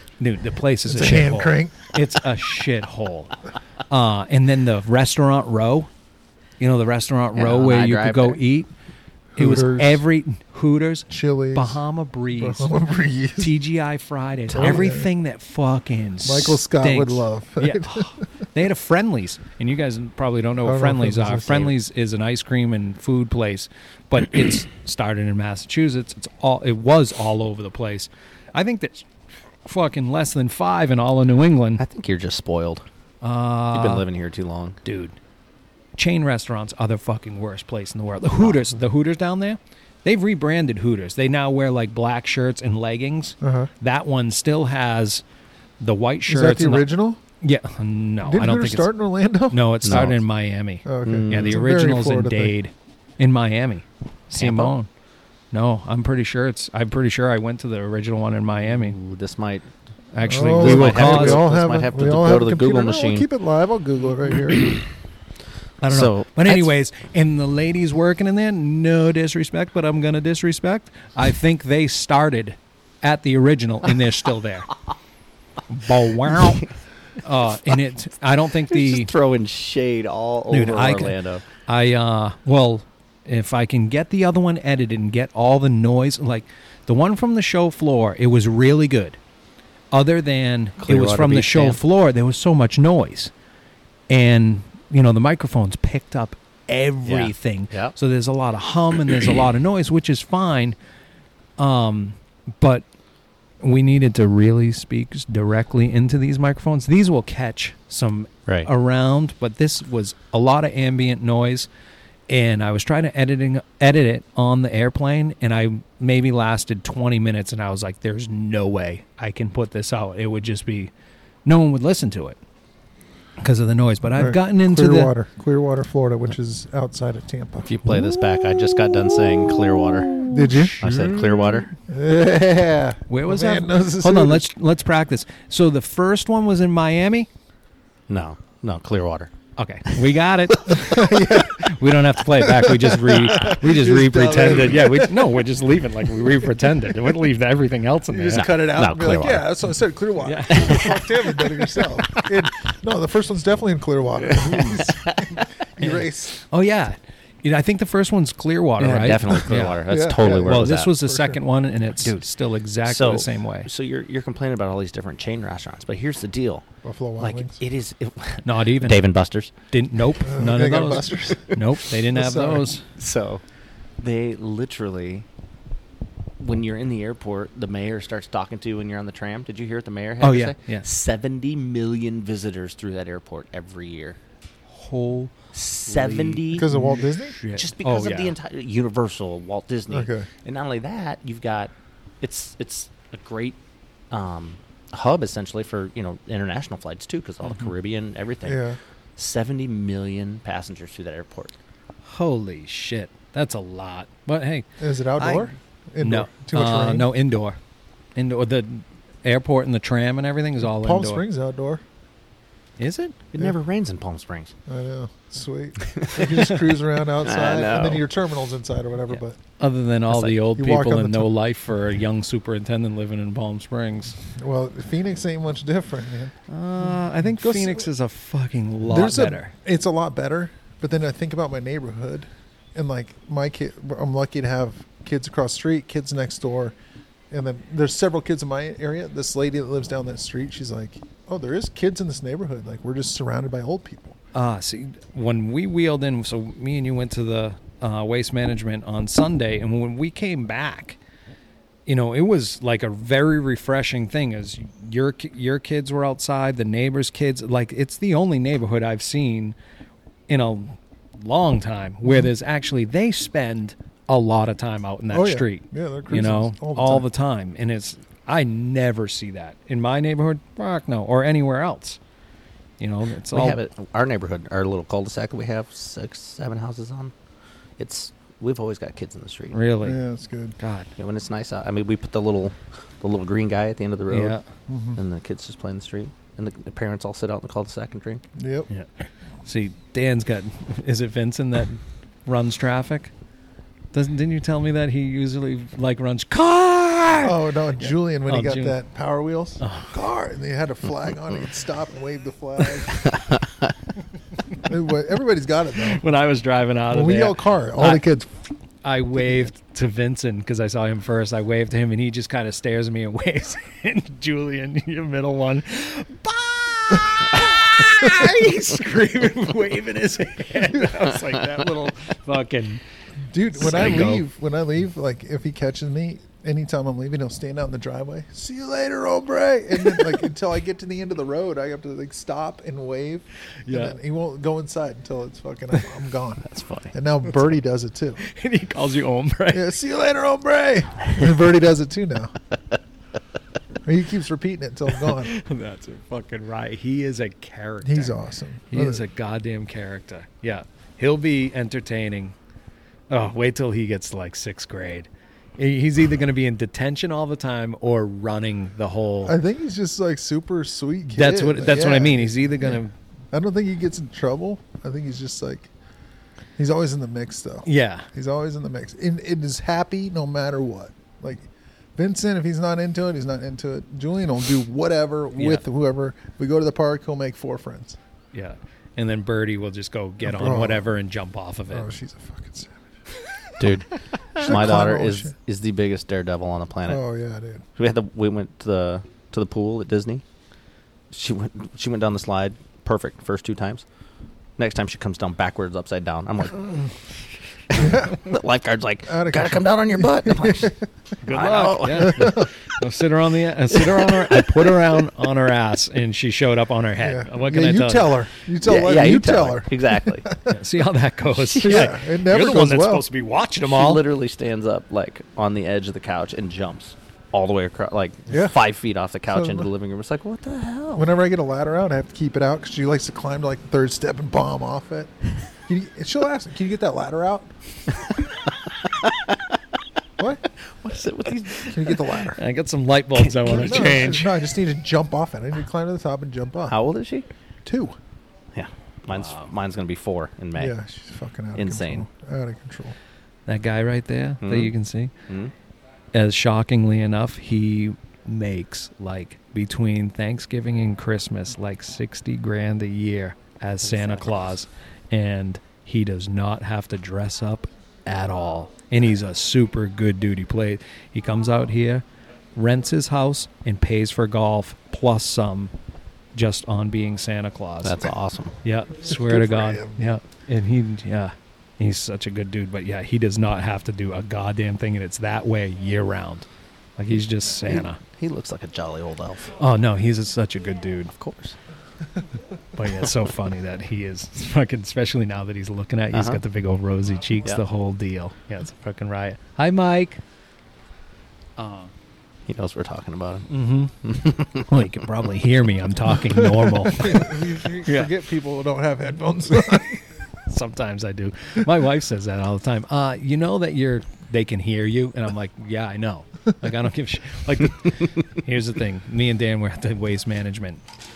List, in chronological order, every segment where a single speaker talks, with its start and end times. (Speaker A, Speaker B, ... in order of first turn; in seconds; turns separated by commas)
Speaker A: 0.2-3.4, Speaker B: 0.9-1.8, Speaker A: 3.9-5.9, Speaker A: 6.6-8.7, Speaker C: 7.3-8.4, Speaker B: 9.4-10.0, Speaker A: 9.4-12.7, Speaker B: 11.1-11.8, Speaker B: 12.4-13.5, Speaker A: 13.4-29.1, Speaker B: 14.5-15.1, Speaker B: 16.2-18.2, Speaker B: 20.6-21.8, Speaker A: 29.6-31.8, Speaker C: 31.8-32.9, Speaker A: 33.2-34.0, Speaker C: 33.7-34.8, Speaker A: 34.8-35.2, Speaker A: 36.0-45.2, Speaker B: 43.4-43.7, Speaker A: 45.8-46.9, Speaker B: 46.3-47.2, Speaker A: 47.4-48.9, Speaker B: 48.2-49.6, Speaker A: 49.5-54.9, Speaker C: 49.9-50.2, Speaker B: 50.9-52.5, Speaker C: 51.0-51.6, Speaker C: 54.4-54.7, Speaker A: 55.5-59.0, Speaker C: 58.7-59.7, Speaker A: 60.1-61.4, Speaker B: 60.3-64.8, Speaker C: 60.5-63.3, Speaker A: 65.8-74.7, Speaker C: 65.9-66.7, Speaker A: 75.7-76.7, Speaker A: 77.2-79.1, Speaker C: 78.7-81.5, Speaker A: 80.5-89.2, Speaker A: 89.9-93.3, Speaker C: 90.8-91.8, Speaker A: 94.1-100.8, Speaker C: 97.1-98.0, Speaker A: 101.6-102.8, Speaker A: 103.6-111.7, Speaker A: 112.3-120.9, Speaker A: 121.5-122.4, Speaker A: 123.4-125.1, Speaker B: 124.2-127.7, Speaker C: 127.7-131.7, Speaker B: 130.3-130.9, Speaker A: 130.5-131.3, Speaker B: 131.8-134.5, Speaker A: 133.1-137.3, Speaker C: 138.1-139.3, Speaker A: 139.6-148.5, Speaker B: 140.7-141.7, Speaker B: 142.4-145.5, Speaker B: 146.2-146.5, Speaker B: 148.1-156.4, Speaker C: 148.3-149.5, Speaker A: 150.2-150.9, Speaker C: 150.5-152.3, Speaker C: 154.3-155.5, Speaker A: 155.8-159.8, Speaker C: 158.8-160.9, Speaker B: 159.8-161.4, Speaker A: 160.4-163.7, Speaker C: 162.8-166.7, Speaker B: 166.8-167.6, Speaker C: 167.2-169.5, Speaker A: 168.4-169.0, Speaker A: 169.7-172.8, Speaker B: 170.2-171.6, Speaker B: 172.1-172.7, Speaker C: 172.9-173.4, Speaker C: 174.0-175.3, Speaker C: 176.4-184.2, Speaker A: 180.2-180.9, Speaker A: 184.7-188.3, Speaker C: 185.5-186.7, Speaker B: 186.5-187.4, Speaker C: 187.5-193.6, Speaker B: 189.9-190.3, Speaker C: 194.1-201.5, Speaker B: 198.4-198.8, Speaker A: 202.1-207.6, Speaker B: 204.8-207.1, Speaker A: 208.2-211.2, Speaker B: 210.6-211.8, Speaker A: 212.8-213.2, Speaker C: 213.3-214.5, Speaker B: 214.7-219.4, Speaker C: 215.9-216.4, Speaker C: 217.2-218.0, Speaker A: 219.6-224.2, Speaker C: 220.1-220.4, Speaker B: 220.6-221.3, Speaker B: 224.2-226.3, Speaker A: 226.5-229.5, Speaker B: 227.2-227.9, Speaker B: 228.9-236.8, Speaker B: 237.3-244.2, Speaker A: 244.3-251.0, Speaker A: 251.9-259.6, Speaker A: 260.3-272.0, Speaker B: 265.1-267.1, Speaker A: 272.8-273.6, Speaker C: 273.3-277.1, Speaker C: 277.8-279.6, Speaker A: 279.5-280.0, Speaker B: 279.8-280.6, Speaker A: 280.6-280.9, Speaker C: 281.0-284.4, Speaker A: 284.1-284.4, Speaker B: 284.7-285.0, Speaker C: 285.0-288.2, Speaker B: 288.4-288.7, Speaker A: 289.4-293.1, Speaker A: 293.9-298.8, Speaker B: 297.2-303.1, Speaker A: 299.6-299.9, Speaker C: 302.9-303.7, Speaker B: 304.6-306.0, Speaker A: 305.9-308.1, Speaker B: 306.9-308.3, Speaker A: 308.8-322.8, Speaker B: 323.2-338.2, Speaker A: 323.6-324.2, Speaker A: 329.8-330.1, Speaker A: 333.7-334.0, Speaker C: 336.4-336.9, Speaker A: 338.2-339.7, Speaker B: 339.5-342.4, Speaker B: 343.9-345.3, Speaker A: 345.2-348.2, Speaker B: 347.8-349.0, Speaker A: 348.7-352.4, Speaker A: 353.1-359.4, Speaker B: 359.2-362.8, Speaker A: 361.1-362.9, Speaker B: 363.3-365.7, Speaker B: 366.6-378.0, Speaker A: 367.6-368.1, Speaker A: 375.4-375.6, Speaker A: 378.3-381.9, Speaker B: 380.2-380.9, Speaker B: 381.7-382.9, Speaker C: 383.6-387.0, Speaker B: 384.4-385.3, Speaker B: 386.9-387.6, Speaker C: 387.8-390.2, Speaker C: 391.1-393.8, Speaker C: 394.6-396.9, Speaker C: 397.7-400.8, Speaker B: 397.8-398.3, Speaker B: 399.1-400.8, Speaker A: 401.2-408.1, Speaker C: 401.3-402.5, Speaker B: 401.9-402.5, Speaker C: 403.8-404.7, Speaker B: 407.0-410.5, Speaker C: 408.6-410.3, Speaker A: 410.5-414.0, Speaker C: 411.5-411.9, Speaker B: 411.5-413.1, Speaker C: 413.6-421.1, Speaker B: 418.3-418.6, Speaker B: 419.3-419.7, Speaker B: 420.9-425.1, Speaker B: 425.7-427.5, Speaker C: 429.0-429.4, Speaker B: 430.2-431.0, Speaker C: 430.8-432.2, Speaker B: 431.6-432.4, Speaker A: 432.3-434.3, Speaker C: 433.2-434.2, Speaker B: 433.5-436.8, Speaker C: 436.7-437.3, Speaker B: 437.6-438.0, Speaker C: 438.5-440.7, Speaker A: 439.1-439.5, Speaker B: 440.6-443.0, Speaker C: 441.6-442.1, Speaker A: 443.5-445.1, Speaker C: 444.4-444.7, Speaker A: 446.1-465.7, Speaker C: 453.9-454.3, Speaker A: 466.4-468.1, Speaker C: 467.8-468.6, Speaker A: 468.6-478.0, Speaker B: 469.1-470.1, Speaker C: 477.6-479.5, Speaker A: 479.6-481.1, Speaker C: 481.1-481.6, Speaker A: 482.8-490.2, Speaker C: 486.1-486.4, Speaker A: 491.6-491.9, Speaker C: 492.5-494.7, Speaker A: 493.5-493.9, Speaker A: 494.5-498.1, Speaker B: 496.3-500.0, Speaker A: 500.5-510.8